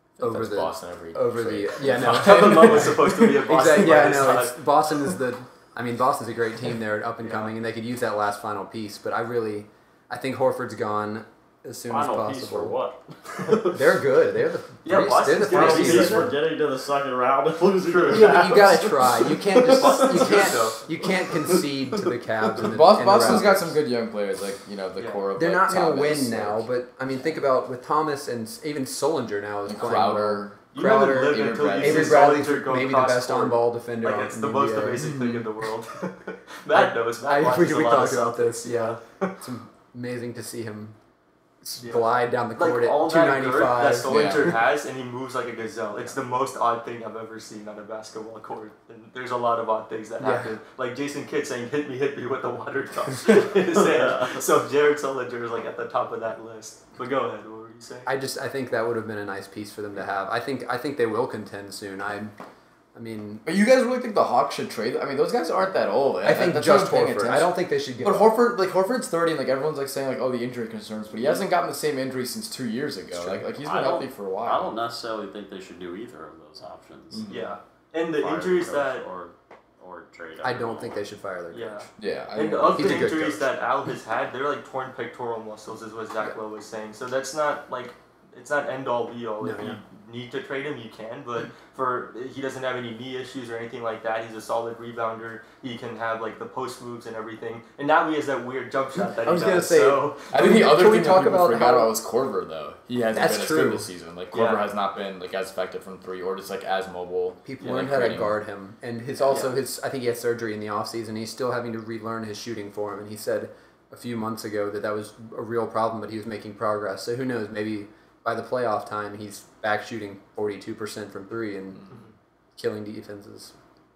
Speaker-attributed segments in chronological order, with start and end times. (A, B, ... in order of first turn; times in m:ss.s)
0:00.2-0:03.4 A
0:00.2-0:12.8 B
0:02.0-0:04.6 C
0:11.9-0:13.8 D
0:13.7-0:16.3 B
0:14.8-0:16.3 C
0:15.3-0:20.6 D
0:17.9-0:18.7 C
0:18.0-0:23.8 B
0:19.6-0:20.8 C
0:21.4-0:22.1 D
0:22.6-0:26.6 A
0:25.4-0:35.5 B
0:29.7-0:32.3 A
0:30.7-0:39.4 C
0:36.7-0:41.0 B
0:41.6-0:44.6 B
0:42.6-0:58.1 C
0:44.1-0:44.5 A
0:50.2-0:50.5 B
0:53.8-0:54.3 D
0:58.1-1:02.3 B
1:02.9-1:03.4 B
1:03.4-1:14.7 A
1:06.2-1:08.3 B
1:13.1-1:13.4 B
1:13.6-1:17.3 D
1:17.1-1:17.5 A
1:17.3-1:19.0 C
1:18.2-1:21.1 D
1:20.4-1:21.9 B
1:21.5-1:40.3 C
1:22.0-1:23.1 A
1:22.8-1:23.5 B
1:29.4-1:29.8 B
1:39.0-1:41.9 B
1:40.3-1:48.3 A
1:43.1-1:43.9 B
1:44.3-1:44.6 C
1:47.5-2:01.8 B
2:02.6-2:03.5 B